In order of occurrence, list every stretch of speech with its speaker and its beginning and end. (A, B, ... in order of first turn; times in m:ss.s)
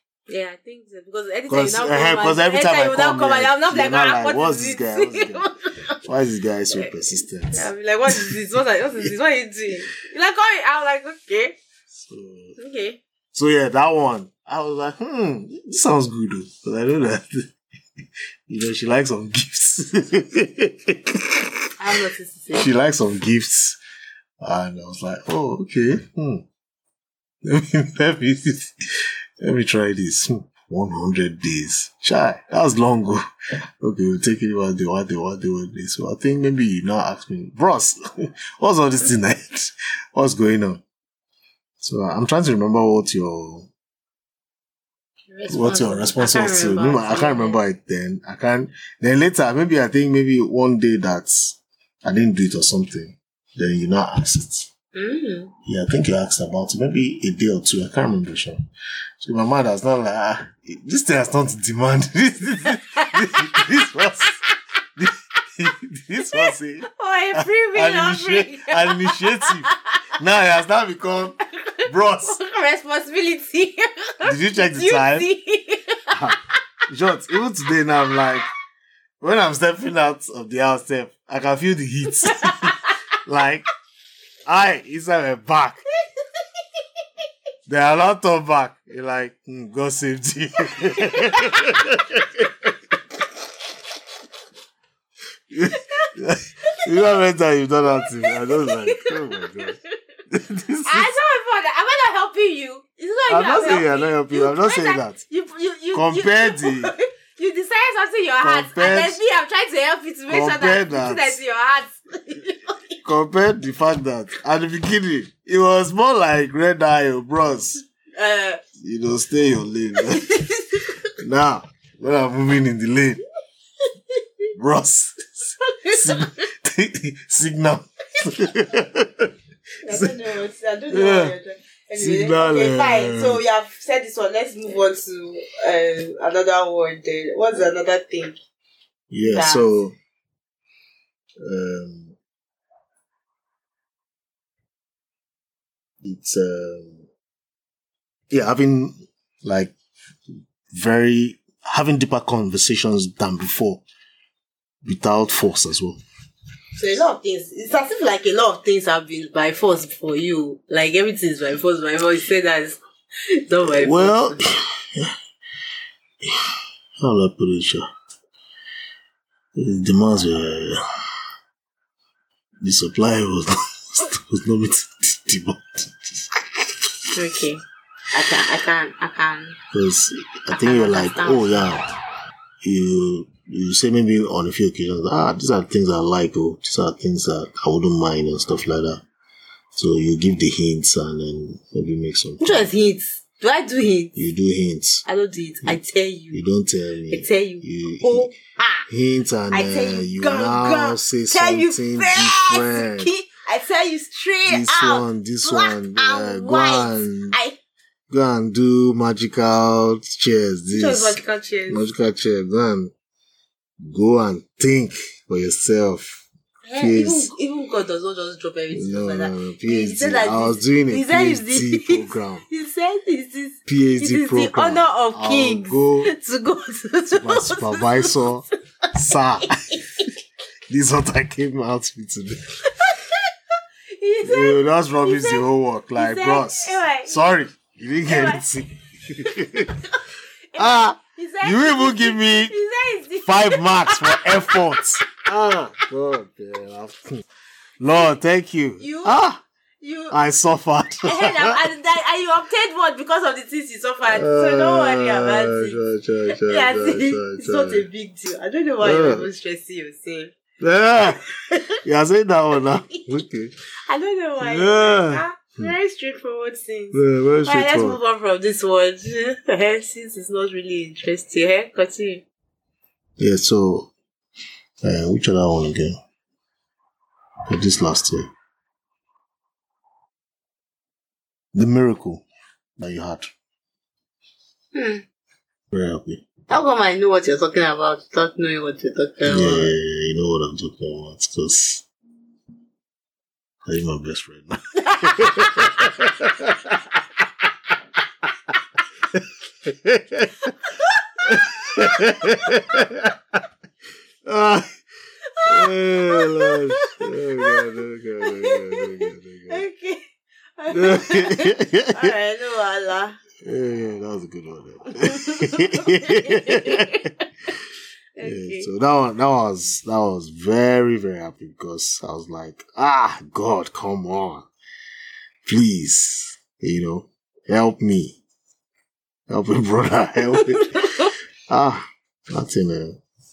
0:00.3-0:06.0 A
0:01.5-0:05.5 B
0:06.0-0:08.4 B
0:06.7-0:11.6 A
0:11.9-0:12.6 B
0:12.6-0:13.0 A
0:13.3-0:17.4 B
0:18.5-0:21.5 B
0:21.8-0:22.7 A
0:22.5-0:23.8 B
0:24.4-0:26.4 B
0:27.4-0:28.7 B
0:29.4-0:33.2 B
0:33.8-0:38.0 B
0:38.6-0:40.8 B
0:41.8-0:43.7 B
0:45.3-0:47.6 A
0:45.5-0:54.7 B
0:55.0-0:55.5 A
0:55.7-0:58.6 B
0:59.2-1:04.4 B
1:03.0-1:03.6 A
1:05.0-1:09.7 B
1:06.3-1:09.7 A
1:10.2-1:12.4 B
1:12.3-1:16.1 A
1:14.2-1:15.3 B
1:16.1-1:16.4 B
1:16.9-1:18.5 B
1:19.2-1:23.7 B
1:22.3-1:22.5 A
1:24.5-1:25.8 B
1:27.7-1:32.7 B
1:31.3-1:31.7 A
1:35.5-1:39.8 B
1:35.7-1:36.1 A
1:36.6-1:37.2 A
1:37.9-1:39.8 A
1:40.3-1:41.1 B
1:40.9-1:53.0 A
1:43.3-1:45.2 B
1:45.9-1:46.9 B
1:48.4-1:49.2 B
1:50.3-1:51.4 B
1:53.0-1:57.8 B
1:58.2-1:58.6 A
1:58.8-2:00.3 B
2:00.1-2:00.9 A
2:01.2-2:03.2 B
2:04.6-2:09.3 B
2:09.8-2:18.4 A
2:10.9-2:11.4 B
2:12.0-2:13.4 B
2:19.1-2:19.9 B
2:19.3-2:19.8 A
2:21.4-2:22.2 B
2:26.0-2:27.1 B
2:28.3-2:29.8 B
2:30.7-2:33.8 B
2:34.8-2:36.0 B
2:36.8-2:42.8 A
2:43.4-2:44.4 A
2:43.8-2:45.1 B
2:47.0-2:47.9 B
2:49.6-2:50.8 B
2:52.6-2:56.2 B
2:57.1-2:59.6 A
2:59.7-3:01.9 B
3:00.5-3:01.6 A
3:02.6-3:09.0 B
3:09.8-3:12.7 B
3:12.4-3:14.1 A
3:14.2-3:15.0 B
3:15.1-3:16.4 A
3:16.3-3:18.3 B
3:17.1-3:18.9 A
3:18.9-3:23.1 B
3:19.5-3:27.6 A
3:24.4-3:27.4 B
3:28.1-3:32.9 B
3:30.7-3:31.9 A
3:33.8-3:36.2 B
3:36.7-3:48.2 A
3:36.8-3:37.3 B
3:38.7-3:42.4 B
3:43.7-3:46.1 B
3:47.1-3:49.5 B
3:49.5-3:50.0 A
3:50.7-3:52.4 B
3:53.9-3:57.4 A
3:54.2-3:59.8 B
3:58.1-3:58.5 A
3:59.2-4:00.0 A
4:00.5-4:04.8 A
4:00.6-4:02.5 B
4:03.2-4:07.2 B
4:07.8-4:09.4 B
4:08.8-4:09.2 A
4:09.8-4:10.2 A
4:10.1-4:11.6 B
4:11.0-4:15.8 A
4:14.1-4:17.9 B
4:16.3-4:20.3 A
4:18.8-4:19.3 B
4:20.6-4:21.2 B
4:21.8-4:23.6 B
4:23.9-4:32.2 A
4:24.4-4:25.7 B
4:26.9-4:28.0 B
4:33.2-4:33.9 B
4:34.8-4:36.0 B
4:37.5-4:38.3 B
4:41.5-4:42.2 B
4:42.8-4:43.3 B
4:44.7-4:45.0 A
4:45.7-4:46.2 B
4:46.5-4:49.7 A
4:49.2-4:51.8 B
4:53.7-4:56.8 B
4:55.4-4:55.6 A
4:59.1-5:00.5 B
5:01.2-5:03.4 B
5:04.2-5:04.7 B
5:05.4-5:07.6 A
5:05.4-5:09.6 B
5:08.2-5:10.0 A
5:10.6-5:13.2 A
5:10.7-5:12.1 B
5:13.4-5:16.9 B
5:15.0-5:17.0 A
5:18.2-5:18.7 A
5:18.2-5:24.5 B
5:25.4-5:28.2 B
5:29.3-5:33.0 B
5:30.3-5:31.1 A